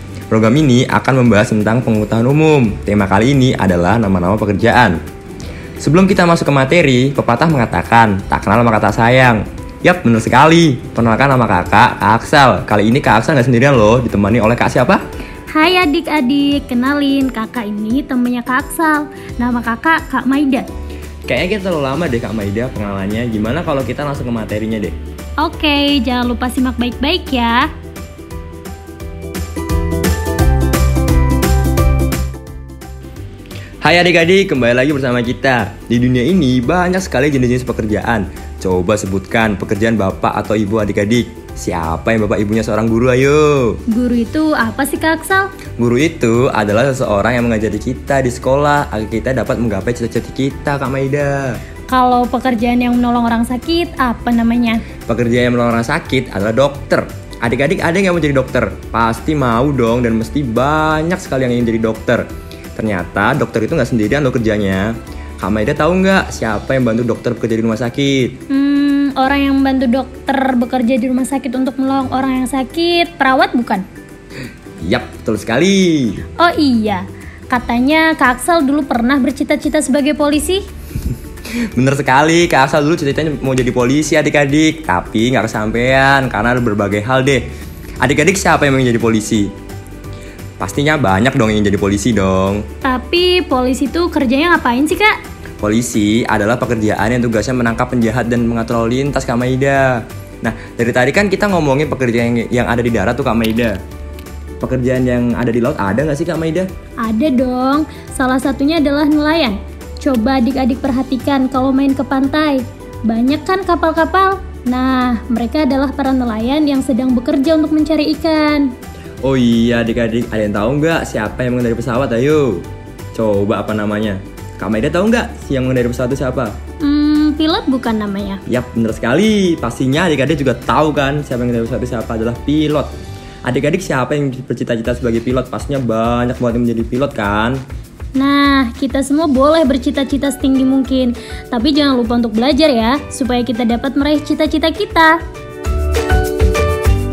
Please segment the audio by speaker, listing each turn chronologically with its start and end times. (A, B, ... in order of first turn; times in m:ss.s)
0:00.3-0:05.0 A
0:05.8-0:15.0 A
0:15.5-0:20.7 B
0:21.3-0:25.0 A
0:25.4-0:27.7 B
0:33.8-0:43.8 A
0:43.9-0:45.5 B
0:45.8-0:51.6 A
0:51.9-0:54.8 B
0:55.1-1:08.3 A
1:08.5-1:13.8 B
1:14.8-1:16.2 A
1:16.4-1:20.6 B
1:21.7-1:27.4 A
1:28.0-1:29.5 A
1:30.6-1:32.6 A
1:32.8-1:35.2 B
1:35.6-1:43.8 A
1:44.6-1:46.7 A
1:47.0-1:58.7 B
1:59.2-2:06.6 A
2:06.8-2:08.4 B
2:08.5-2:12.9 A
2:13.4-2:17.6 A
2:18.2-2:25.2 B